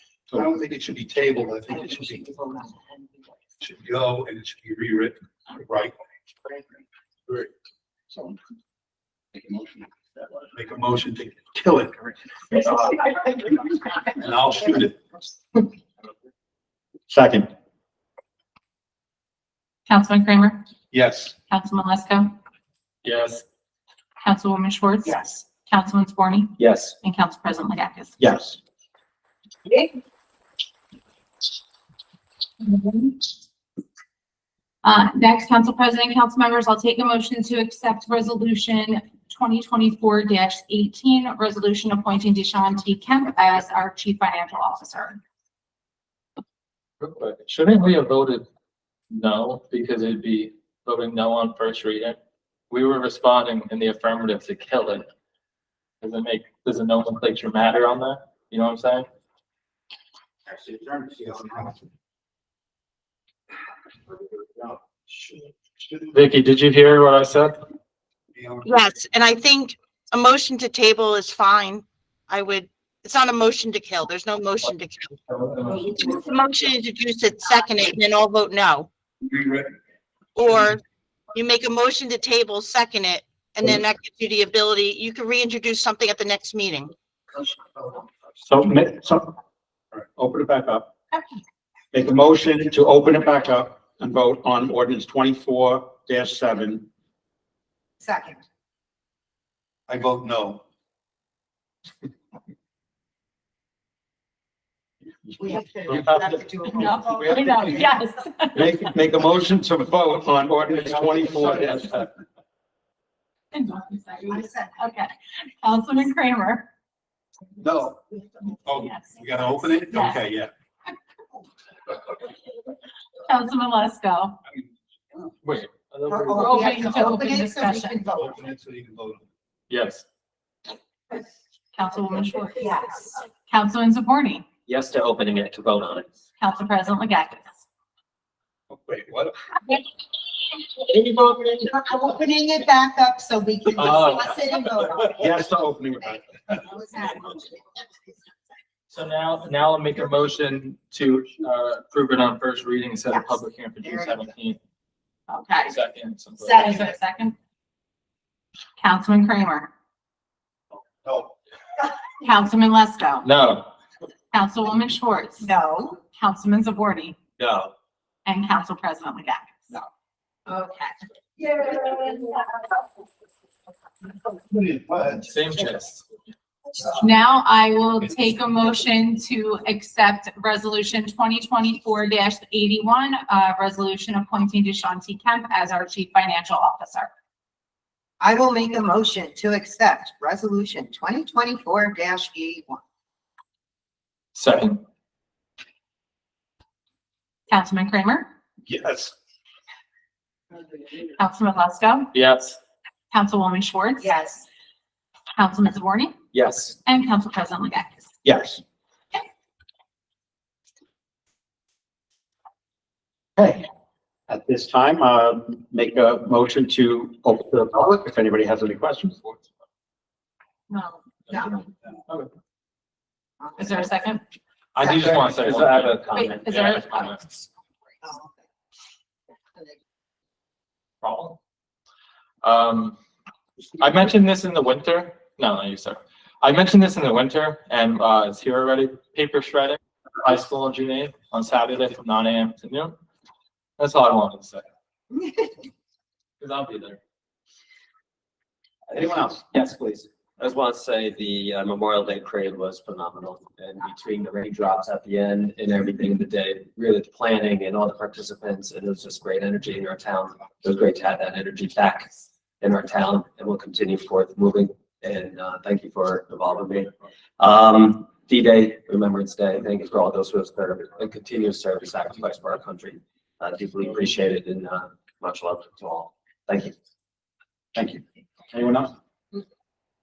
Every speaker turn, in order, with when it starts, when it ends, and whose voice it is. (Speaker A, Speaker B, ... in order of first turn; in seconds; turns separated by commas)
Speaker A: 0.3-2.4, Speaker B: 2.3-2.8, Speaker A: 3.6-5.9, Speaker C: 9.5-9.8, Speaker A: 10.5-12.0, Speaker A: 14.1-15.0, Speaker C: 17.1-17.5, Speaker D: 19.9-20.6, Speaker A: 20.9-21.3, Speaker D: 21.5-22.3, Speaker E: 23.0-23.4, Speaker D: 24.2-28.1, Speaker F: 26.6-26.9, Speaker C: 28.2-28.6, Speaker B: 29.6-29.9, Speaker D: 32.6-33.1, Speaker D: 34.8-45.2, Speaker E: 47.0-48.5, Speaker E: 49.1-52.2, Speaker E: 52.7-55.1, Speaker E: 56.0-59.1, Speaker C: 60.5-61.8, Speaker A: 65.9-66.2, Speaker E: 66.1-67.5, Speaker A: 68.3-68.7, Speaker G: 68.7-75.2, Speaker E: 75.3-76.0, Speaker G: 75.9-78.9, Speaker A: 79.2-79.8, Speaker G: 80.4-80.8, Speaker A: 80.5-80.7, Speaker G: 81.3-86.9, Speaker C: 88.4-89.3, Speaker C: 90.2-90.9, Speaker C: 91.9-96.9, Speaker B: 98.0-98.4, Speaker A: 99.9-100.6, Speaker C: 105.3-107.8, Speaker B: 105.4-107.8, Speaker D: 106.8-108.9, Speaker C: 108.5-112.1, Speaker D: 113.5-116.7, Speaker B: 114.3-114.7, Speaker A: 117.6-118.0, Speaker A: 118.7-120.5, Speaker D: 118.8-119.3, Speaker D: 119.8-120.2, Speaker D: 123.2-124.4, Speaker E: 125.4-126.7, Speaker B: 126.1-128.4, Speaker D: 126.3-128.0, Speaker A: 128.1-129.3, Speaker E: 129.7-130.0, Speaker D: 131.7-134.5, Speaker B: 132.6-133.1, Speaker F: 134.7-136.1, Speaker D: 136.4-137.6, Speaker A: 138.7-139.4, Speaker B: 140.9-145.5, Speaker E: 143.8-144.3, Speaker C: 145.1-146.2, Speaker B: 146.0-148.0, Speaker E: 148.9-154.6, Speaker B: 153.1-154.2, Speaker D: 155.3-155.8, Speaker E: 155.6-156.9, Speaker B: 156.4-156.9, Speaker D: 156.5-157.3, Speaker D: 158.8-159.7, Speaker A: 161.0-161.3, Speaker D: 162.2-163.3, Speaker E: 163.2-163.7, Speaker D: 164.3-165.5, Speaker B: 165.4-166.0, Speaker D: 166.1-167.2, Speaker F: 167.4-167.7, Speaker D: 168.2-169.7, Speaker B: 170.5-172.5, Speaker A: 174.3-175.3, Speaker E: 175.2-176.0, Speaker D: 176.9-187.1, Speaker B: 188.2-192.8, Speaker E: 194.3-194.8, Speaker D: 197.5-198.3, Speaker C: 198.7-199.1, Speaker D: 201.2-202.1, Speaker E: 202.1-202.6, Speaker D: 203.1-204.2, Speaker B: 204.0-204.4, Speaker D: 205.3-206.2, Speaker F: 206.3-206.8, Speaker D: 206.8-208.1, Speaker C: 208.2-208.6, Speaker C: 213.4-213.7, Speaker C: 214.3-219.3, Speaker D: 220.7-221.0, Speaker D: 223.6-224.2, Speaker E: 224.7-227.3, Speaker B: 224.8-225.2, Speaker F: 225.0-226.5, Speaker D: 226.1-227.2, Speaker B: 228.0-228.3, Speaker E: 231.0-231.4, Speaker E: 232.4-233.0, Speaker E: 233.8-242.9, Speaker E: 243.8-244.7, Speaker E: 246.4-247.0, Speaker C: 248.9-249.4, Speaker F: 249.5-262.1, Speaker F: 262.6-276.7, Speaker C: 277.8-278.9